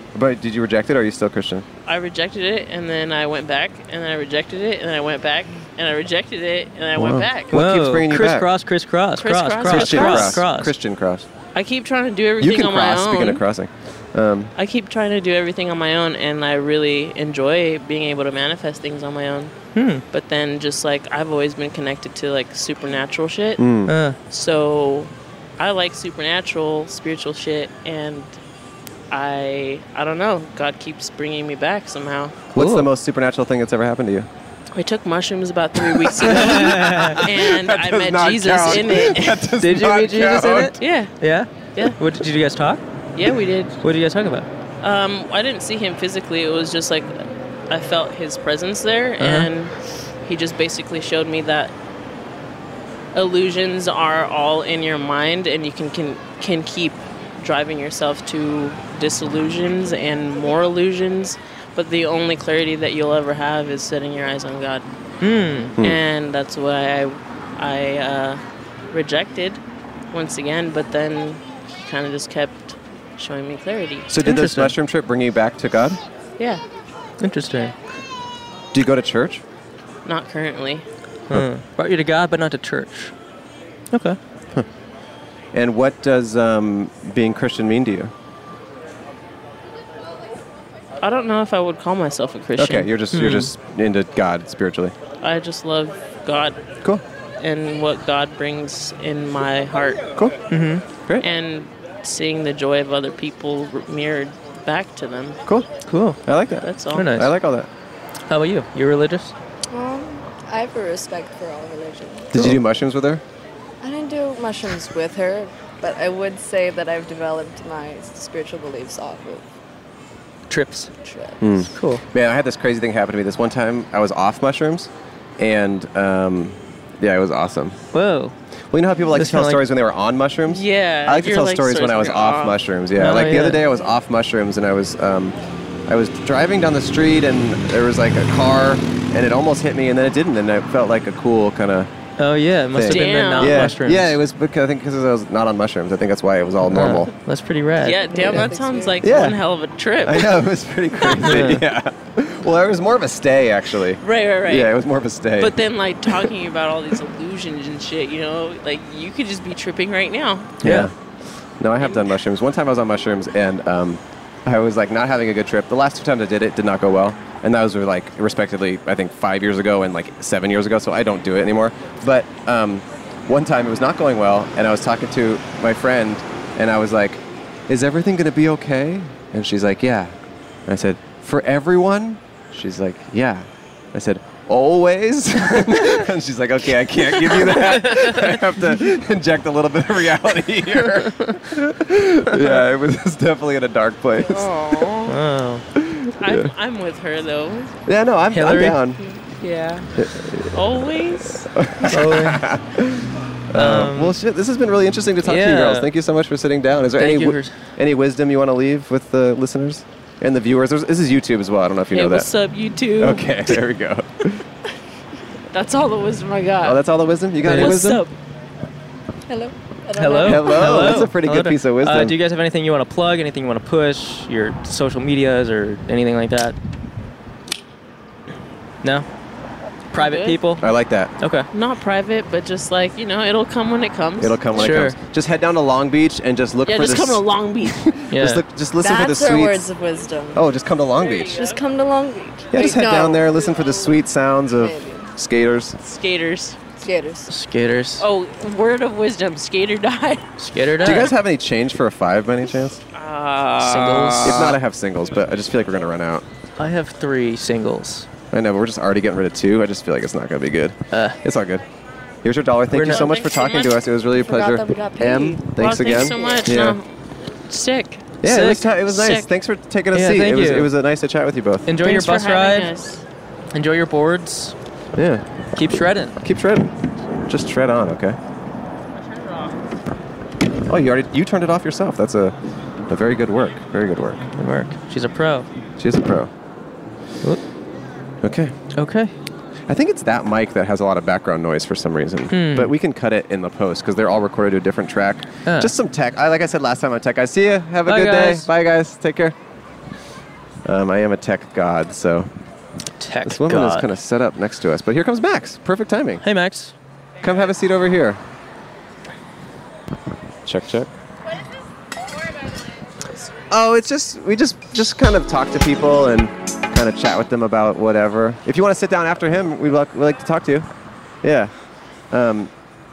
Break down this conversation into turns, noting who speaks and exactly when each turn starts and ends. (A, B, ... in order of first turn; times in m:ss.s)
0:00.1-0:01.6 A
0:01.8-0:07.5 B
0:07.0-0:08.5 A
0:07.5-0:10.7 C
0:09.2-0:10.4 B
0:09.7-0:11.3 A
0:11.5-0:13.4 B
0:12.4-0:14.5 A
0:14.6-0:19.5 B
0:19.7-0:20.0 C
0:20.1-0:23.6 B
0:23.6-0:23.9 A
0:23.9-0:24.2 C
0:24.3-0:28.3 B
0:29.1-0:32.4 B
0:32.5-0:34.3 A
0:32.5-0:32.9 C
0:34.7-0:39.5 B
0:35.8-0:40.8 A
0:36.3-0:37.2 C
0:39.6-0:42.8 C
0:40.8-0:41.1 B
0:43.1-0:43.8 B
0:43.8-0:44.5 C
0:44.8-0:49.7 B
0:49.2-0:49.5 C
0:50.2-0:51.7 B
0:53.1-1:04.9 B
1:05.2-1:05.7 C
1:05.8-1:08.4 B
1:08.9-1:09.6 B
1:10.1-1:14.1 B
1:14.1-1:16.0 A
1:14.2-1:14.7 C
1:17.2-1:17.7 C
1:18.7-1:19.4 A
1:20.0-1:20.8 B
1:21.3-1:23.1 C
1:23.9-1:24.2 C
1:25.5-1:28.1 A
1:31.0-1:32.9 B
1:32.6-1:34.9 A
1:33.1-1:33.5 C
1:35.2-1:36.6 B
1:37.4-1:40.1 B
1:40.5-1:40.8 C
1:41.2-1:45.4 B
1:45.9-1:46.2 C
1:46.2-1:47.7 A
1:46.6-1:47.2 B
1:46.9-1:47.3 C
1:48.3-1:49.3 C
1:49.7-1:52.3 D
1:52.3-1:53.2 A
1:53.8-1:59.4 D
2:00.5-2:00.9 C
2:01.0-2:01.4 D
2:01.4-2:07.8 A
2:01.7-2:02.0 C
2:07.9-2:08.3 C
2:08.7-2:15.4 A
2:09.1-2:09.6 C
2:10.5-2:12.6 B
2:13.0-2:13.6 C
2:15.9-2:21.9 A
2:22.2-2:24.2 C
2:22.7-2:27.1 A
2:22.9-2:23.7 B
2:26.7-2:28.0 C
2:27.8-2:30.4 B
2:28.0-2:29.1 D
2:29.0-2:29.4 A
2:30.0-2:36.2 A
2:31.0-2:31.4 B
2:31.3-2:31.6 C
2:34.0-2:34.8 B
2:35.4-2:40.6 B
2:40.6-2:40.9 A
2:40.6-2:40.9 C
2:41.6-3:00.2 A
2:41.8-2:42.1 B
3:00.7-3:14.9 A
3:07.8-3:08.2 C
3:14.2-3:15.2 B
3:15.1-3:15.6 C
3:15.7-3:16.5 A
3:16.2-3:17.8 B
3:17.8-3:19.0 A
3:18.3-3:18.8 C
3:19.4-3:19.9 B
3:20.0-3:20.6 A
3:20.5-3:21.5 B
3:21.4-3:32.3 A
3:21.9-3:22.4 C
3:23.5-3:24.2 C
3:25.2-3:25.9 C
3:27.0-3:27.5 C
3:31.9-3:33.6 B
3:33.0-3:34.4 A
3:35.5-3:36.8 B
3:36.6-3:38.0 A
3:37.4-3:37.8 C
3:37.4-3:38.1 B
3:39.3-3:41.0 D
3:40.0-3:46.6 C
3:40.2-3:42.2 A
3:49.9-3:50.7 C
3:49.9-3:50.4 B
3:50.6-3:51.1 A
3:51.2-3:51.5 C
3:51.5-3:54.4 B
3:54.2-3:59.6 A
3:54.6-3:55.0 C
3:56.6-3:57.8 B
3:58.1-3:58.4 C
3:58.8-4:00.4 D
4:00.3-4:01.4 A
4:01.1-4:01.6 B
4:01.3-4:03.3 D
4:02.5-4:05.8 A
4:02.5-4:03.0 B
4:04.6-4:05.1 D
4:05.8-4:06.7 B
4:06.8-4:07.3 D
4:07.3-4:08.0 C
4:08.0-4:10.2 B
4:10.4-4:11.1 C
4:10.8-4:12.8 A
4:12.9-4:14.5 B
4:13.6-4:14.5 C
4:14.2-4:16.2 A
4:16.6-4:18.1 C
4:18.3-4:21.6 A
4:20.9-4:21.2 C
4:22.2-4:26.8 A
4:22.7-4:23.1 C
4:22.8-4:23.8 B
4:24.1-4:26.5 D
4:25.6-4:26.9 B
4:27.5-4:28.2 B
4:28.2-4:31.7 A
4:28.2-4:28.7 C
4:28.8-4:29.3 B
4:29.9-4:30.7 C
4:31.7-4:32.7 C
4:31.8-4:33.0 B
4:33.5-4:34.5 C
4:34.9-4:35.2 A
4:35.5-4:36.2 C
4:36.2-4:36.7 A
4:37.3-4:38.2 A
4:40.6-4:42.3 A
4:42.9-4:44.2 A
4:44.3-4:45.5 C
4:45.8-4:46.3 A
4:48.2-4:48.5 A
4:48.7-4:49.1 C
4:49.7-4:59.4 A
4:52.3-4:52.7 C
4:55.4-4:55.7 C
4:57.8-4:58.5 C
5:00.6-5:02.3 A
5:03.0-5:03.9 C
5:03.2-5:06.2 A
5:06.2-5:06.7 C
5:07.2-5:08.2 A
5:10.4-5:10.9 A
5:13.5-5:20.7 A
5:21.2-5:21.5 A
5:22.1-5:22.5 A